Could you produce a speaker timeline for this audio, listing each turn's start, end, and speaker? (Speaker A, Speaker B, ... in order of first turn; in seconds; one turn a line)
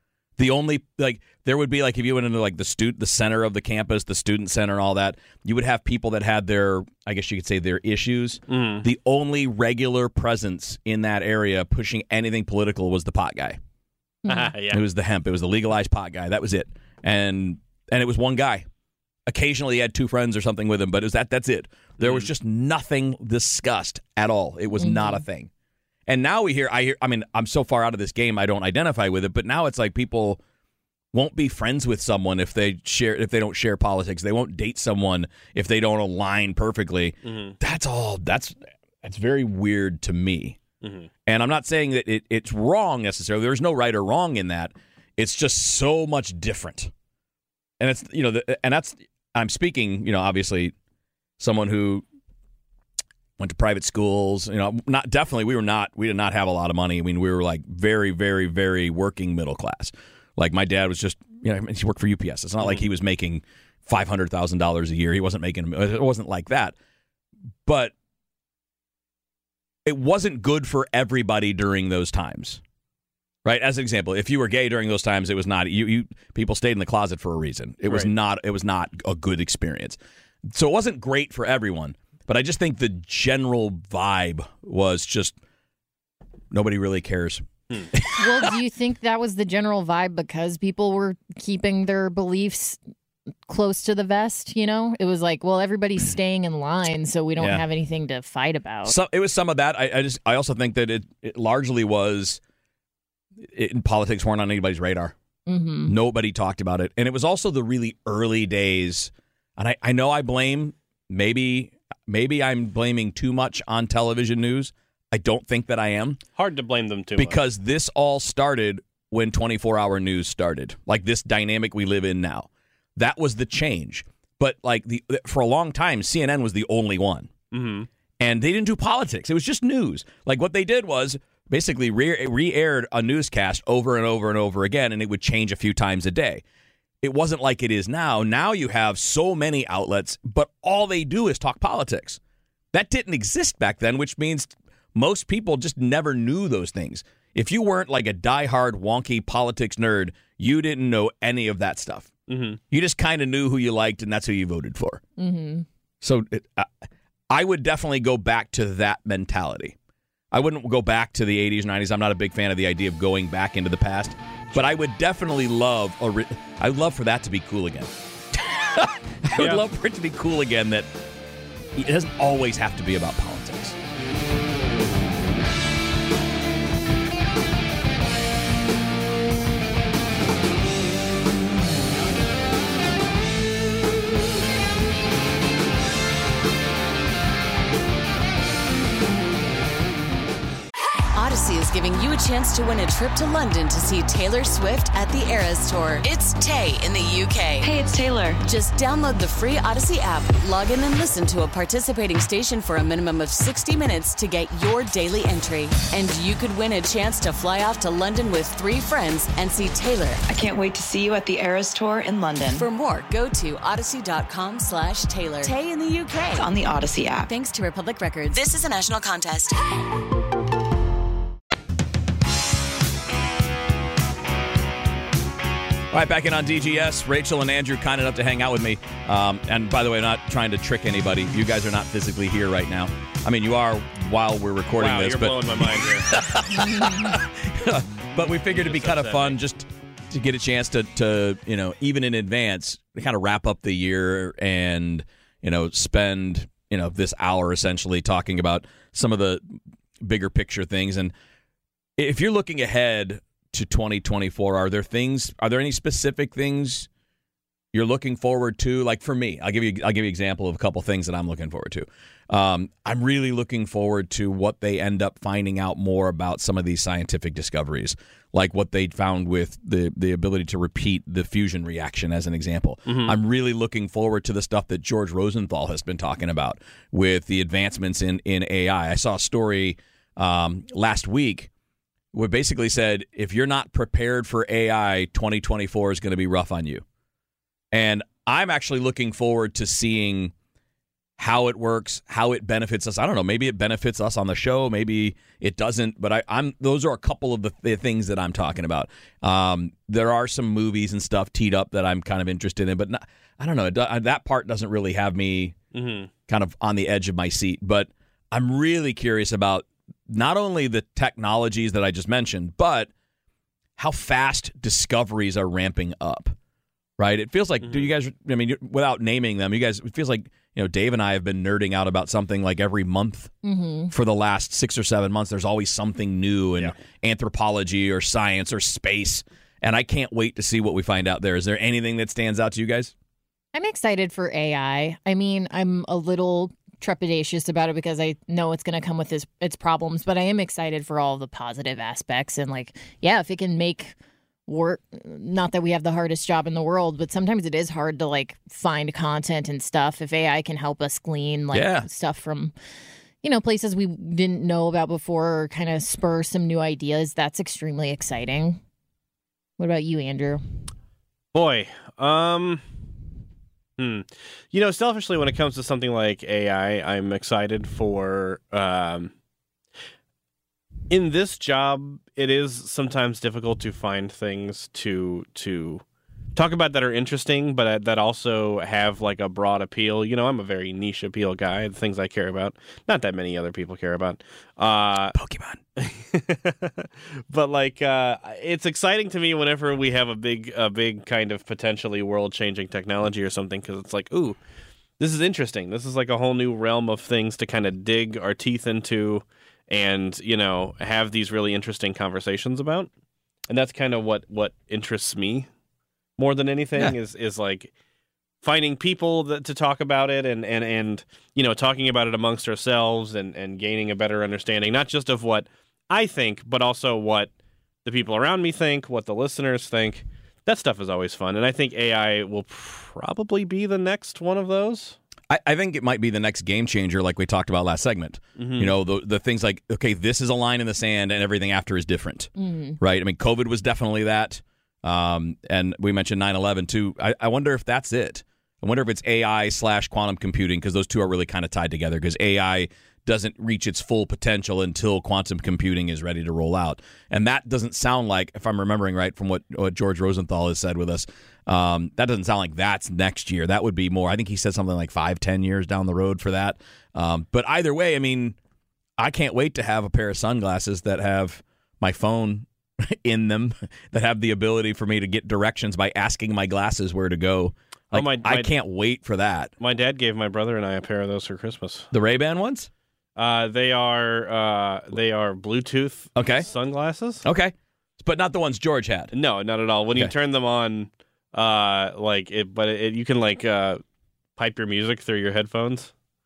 Speaker A: 0.4-13.6
Speaker B: 8.5-8.9
Speaker B: 14.3-14.8
Speaker A: 14.7-18.7
Speaker A: 19.3-25.5
Speaker B: 22.0-22.3
Speaker C: 24.8-25.2
Speaker A: 26.1-30.4
Speaker A: 31.1-40.6
Speaker B: 37.2-37.6
Speaker B: 40.8-41.1
Speaker A: 41.3-46.9
Speaker A: 47.8-50.7
Speaker A: 51.4-52.1
Speaker A: 53.4-66.8
Speaker A: 67.7-67.9
Speaker A: 69.8-72.6
Speaker A: 73.5-85.4
Speaker B: 77.9-78.1
Speaker A: 86.5-88.5
Speaker C: 88.2-92.8
Speaker C: 93.5-99.0
Speaker A: 97.4-97.7
Speaker A: 98.8-102.4
Speaker A: 103.4-105.1
Speaker C: 105.5-106.0
Speaker A: 105.9-116.2
Speaker B: 116.4-117.4
Speaker A: 117.2-127.3
Speaker B: 127.5-127.9
Speaker A: 128.2-136.4
Speaker A: 137.0-142.2
Speaker A: 142.7-152.1
Speaker B: 152.3-152.6
Speaker A: 152.7-155.0
Speaker C: 155.2-155.7
Speaker A: 156.0-156.7
Speaker A: 157.3-159.8
Speaker A: 160.3-170.9
Speaker B: 169.3-169.6
Speaker A: 171.8-173.8
Speaker D: 191.2-197.7
Speaker E: 197.6-198.4
Speaker D: 198.4-210.2
Speaker E: 210.3-212.7
Speaker D: 212.5-216.4
Speaker E: 216.4-217.3
Speaker D: 217.3-219.6
Speaker A: 225.9-251.1
Speaker B: 234.8-236.2
Speaker B: 238.5-239.4
Speaker A: 252.0-256.9
Speaker A: 257.7-281.5
Speaker B: 272.9-273.1
Speaker A: 282.1-286.8
Speaker A: 287.7-290.3
Speaker A: 291.2-305.6
Speaker B: 305.7-306.1
Speaker A: 306.3-312.9
Speaker A: 313.8-316.4
Speaker A: 317.0-323.3
Speaker B: 317.6-317.9
Speaker C: 323.4-323.9
Speaker A: 323.9-332.9
Speaker C: 333.5-343.9
Speaker C: 344.5-352.5
Speaker A: 351.5-351.9
Speaker C: 353.2-358.6
Speaker C: 359.6-360.4
Speaker B: 361.3-362.6
Speaker B: 363.8-369.1
Speaker B: 370.9-375.8
Speaker B: 376.4-385.1
Speaker A: 385.1-385.6
Speaker B: 385.8-394.4
Speaker B: 395.0-402.9
Speaker B: 403.5-405.5
Speaker B: 406.2-407.7
Speaker B: 408.4-417.3
Speaker B: 417.9-425.0
Speaker A: 425.3-458.4
Speaker B: 428.4-428.7
Speaker C: 432.4-432.8
Speaker A: 459.0-469.5
Speaker B: 467.9-468.5
Speaker B: 469.6-471.9
Speaker A: 471.9-472.7
Speaker B: 473.2-477.2
Speaker A: 476.2-476.5
Speaker A: 477.2-479.1
Speaker B: 479.1-483.8
Speaker B: 484.4-485.9